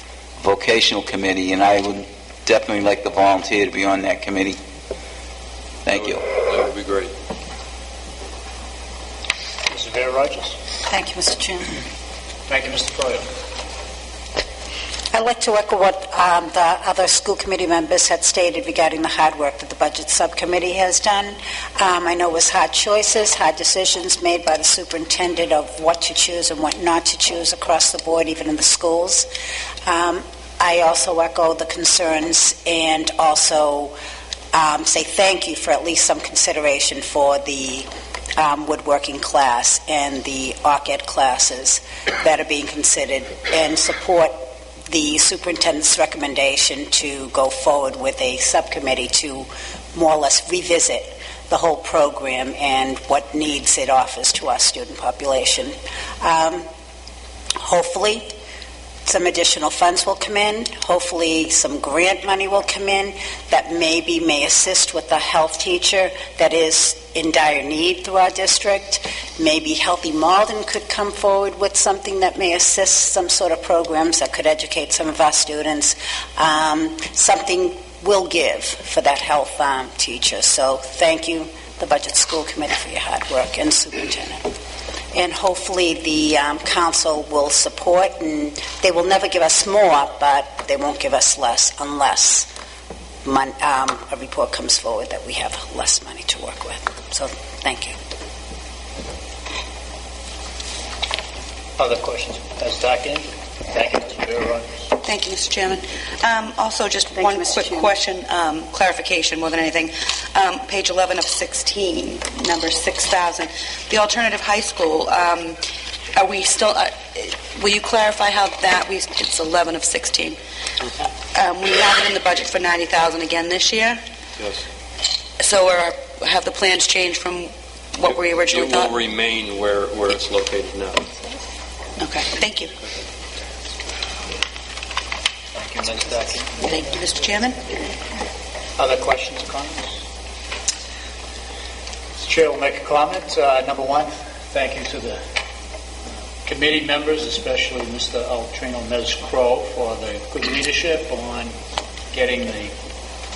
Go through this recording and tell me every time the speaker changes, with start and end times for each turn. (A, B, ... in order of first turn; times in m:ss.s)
0:00.4-0:04.6 A
0:05.8-0:06.2 A
0:05.9-0:07.1 B
0:09.7-0:10.6 C
0:10.9-0:11.8 D
0:12.5-0:13.3 C
0:15.1-0:29.3 D
0:29.9-0:34.0 D
0:34.5-0:56.7 D
0:57.6-0:58.4 D
0:59.1-1:24.5 D
1:25.1-1:32.5 D
1:33.2-1:38.0 D
1:41.8-1:44.8 C
1:45.0-1:55.6 E
1:56.2-2:00.4 E
2:01.4-2:04.0 E
2:04.4-2:04.6 B
2:05.4-2:09.0 E
2:08.0-2:11.1 B
2:12.0-2:12.7 E
2:15.5-2:16.7 C
2:16.6-2:17.8 E
2:18.8-2:20.0 C
2:22.2-2:25.3 C
2:26.4-2:31.6 C
2:32.1-2:32.8 C